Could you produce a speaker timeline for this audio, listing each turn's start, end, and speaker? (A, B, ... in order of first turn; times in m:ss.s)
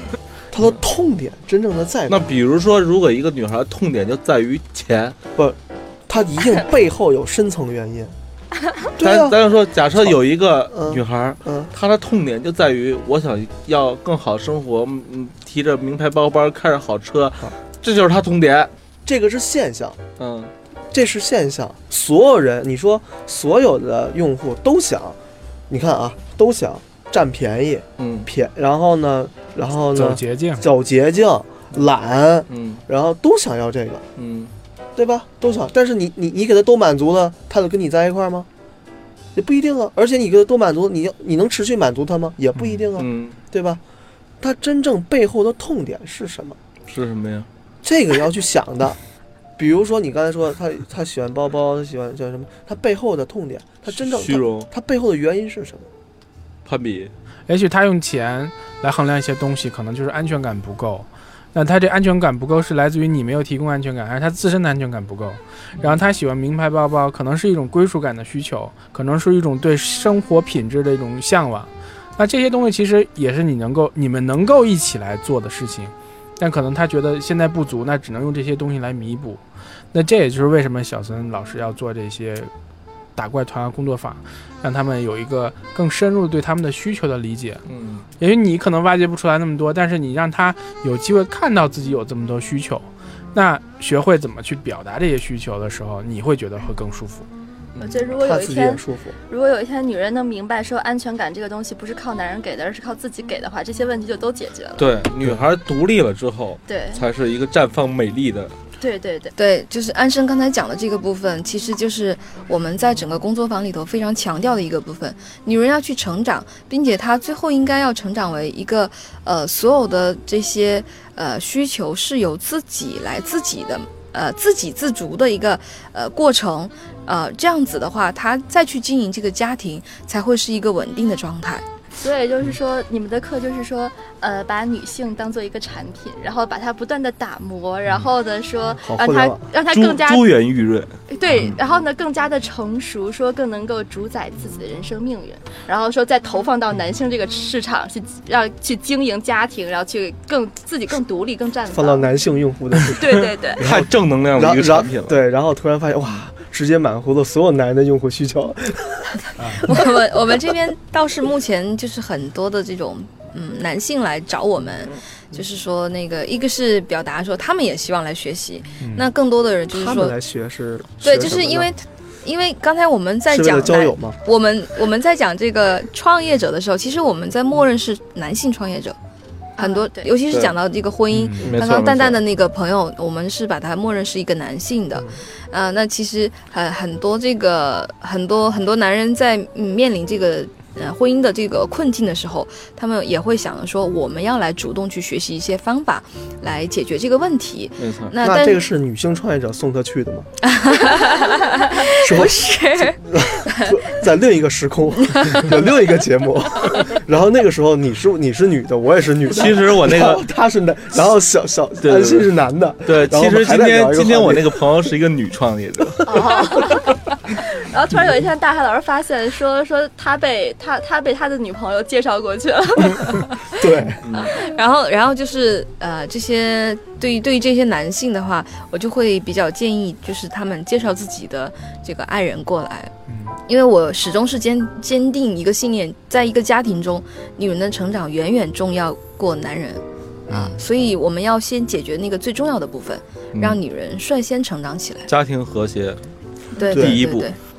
0:00.5-0:02.2 A
0:02.1-0:05.2 B
0:05.4-0:08.1 A
0:09.0-0:09.4 A
0:09.0-0:18.7 B
0:10.7-0:11.7 A
0:19.0-0:20.0 A
0:20.2-0:20.5 B
0:20.9-0:25.2 A
0:25.7-0:34.0 A
0:28.0-0:28.3 B
0:29.9-0:30.6 C
0:32.5-0:32.8 B
0:34.2-0:34.5 B
0:35.0-0:38.5 A
0:39.3-0:43.8 A
0:43.0-0:43.4 B
0:44.4-0:46.6 A
0:46.9-0:47.5 B
0:47.8-0:49.0 A
0:49.6-0:55.9 A
0:54.0-0:54.7 B
0:56.6-0:57.1 B
0:57.5-1:22.5 C
1:23.1-1:27.6 C
1:27.7-1:28.1 B
1:28.2-1:37.2 C
1:37.8-1:44.9 D
1:38.2-1:39.2 A
1:44.8-1:48.5 B
1:46.7-1:47.0 D
1:48.8-1:49.4 D
1:49.4-2:11.6 E
2:12.0-2:20.3 D
2:18.8-2:19.4 A
2:19.6-2:21.5 B
2:21.1-2:32.1 D
2:31.7-2:39.1 A
2:33.0-2:33.6 D
2:33.6-2:35.2 B
2:39.4-2:39.7 C
2:39.6-2:50.1 E
2:48.8-2:49.1 C
2:49.7-2:51.7 A
2:51.0-2:59.0 E
2:53.3-2:54.2 A
2:59.6-3:00.1 D
2:59.6-3:18.6 E
3:00.3-3:00.6 B
3:01.1-3:01.5 C
3:01.3-3:02.2 B
3:04.9-3:05.2 A
3:17.8-3:18.1 B
3:18.2-3:20.3 A
3:20.4-3:23.8 E
3:21.9-3:34.7 A
3:29.3-3:30.3 B
3:31.8-3:32.2 B
3:32.8-3:36.1 B
3:36.0-3:43.5 D
3:43.6-3:44.0 A
3:44.0-3:44.4 B
3:44.2-3:52.9 E
3:53.1-3:53.4 C
3:53.5-4:05.1 E
4:00.3-4:00.6 C
4:03.3-4:03.6 B
4:05.1-4:06.0 B
4:06.6-4:07.4 E
4:06.6-4:07.3 B
4:06.7-4:07.0 A